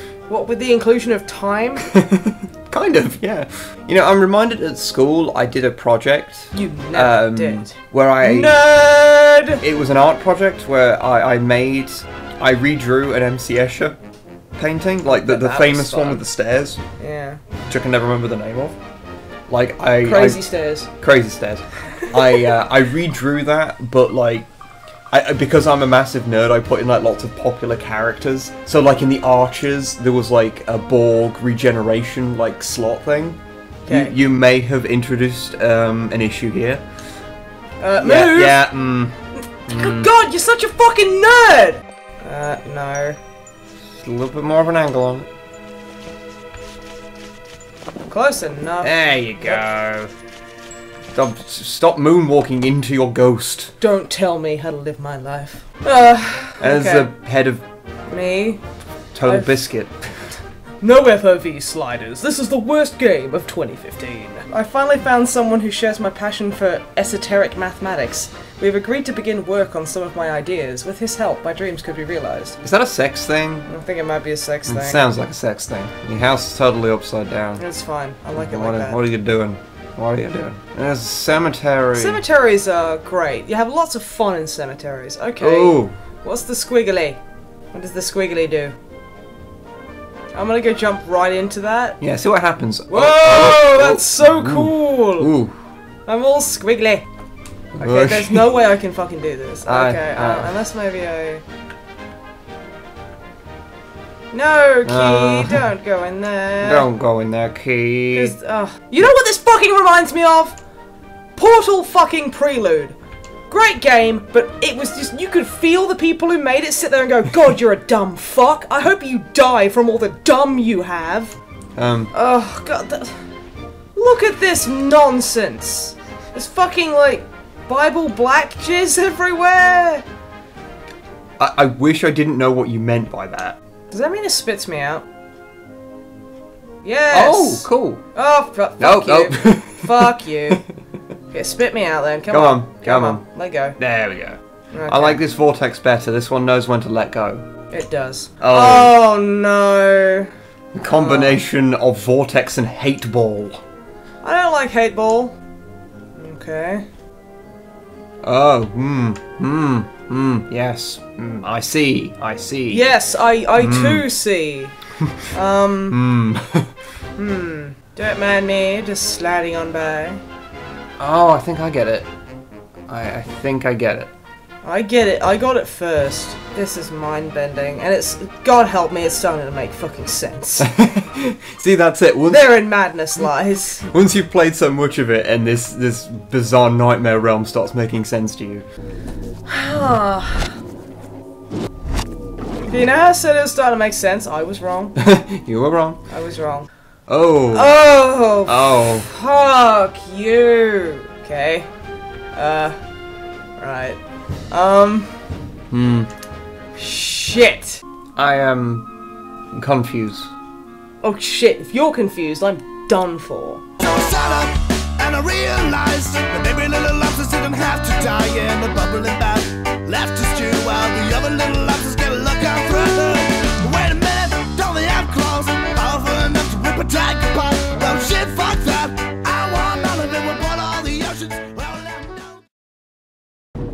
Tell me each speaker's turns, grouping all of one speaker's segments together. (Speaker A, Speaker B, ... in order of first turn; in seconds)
Speaker A: 0.3-1.9, 6.5-9.6, 15.1-16.2, 17.0-17.4, 20.0-20.9, 33.9-34.1, 37.8-38.6, 39.7-43.2, 48.1-49.6, 53.8-57.1, 58.1-58.6, 59.2-59.6, 60.8-72.6, 73.7-75.1, 77.6-79.0, 82.0-87.2, 87.7-88.8, 90.3-92.0, 92.9-95.3, 96.1-97.0, 97.8-101.4, 104.3-106.9, 108.1-110.6, 111.4-113.0, 113.5-121.3, 122.1-123.3, 124.0-130.0, 133.9-135.1, 136.8-140.6, 141.3-143.8, 144.7-145.2, 147.7-150.3, 150.9-151.4, 154.2-155.4, 156.2-156.8, 162.7-164.7, 165.3-166.0, 167.2-170.2, 174.6-180.7, 182.3-183.9, 189.5-190.6, 192.7-195.0, 196.1-196.7, 197.5-201.7, 202.3-202.8, 203.6-204.0, 204.5-205.2, 206.8-207.8, 211.0-213.6
Speaker B: 1.9-8.7, 9.6-14.0, 14.6-16.8, 17.7-18.8, 19.5-24.5, 25.1-36.8, 38.0-40.1, 43.9-45.3, 48.8-50.1, 51.1-53.7, 56.6-57.6, 59.1-60.4, 72.6-73.7, 74.7-77.6, 78.3-82.2, 85.4-85.9, 92.0-95.5, 97.7-98.5, 99.7-100.5, 104.8-105.7, 106.6-108.3, 121.8-122.1, 131.4-133.6, 137.1-138.0, 138.8-140.6, 142.3-143.2, 143.8-147.5, 148.4-149.0, 150.8-153.6, 158.2-162.9, 163.6-164.1, 165.9-166.7, 171.0-172.1, 172.9-174.1, 180.6-182.5, 183.8-188.7, 195.0-196.0, 197.1-197.9, 198.5-199.1, 205.7-206.1, 208.2-208.9, 209.5-210.3
Speaker C: 213.8-232.3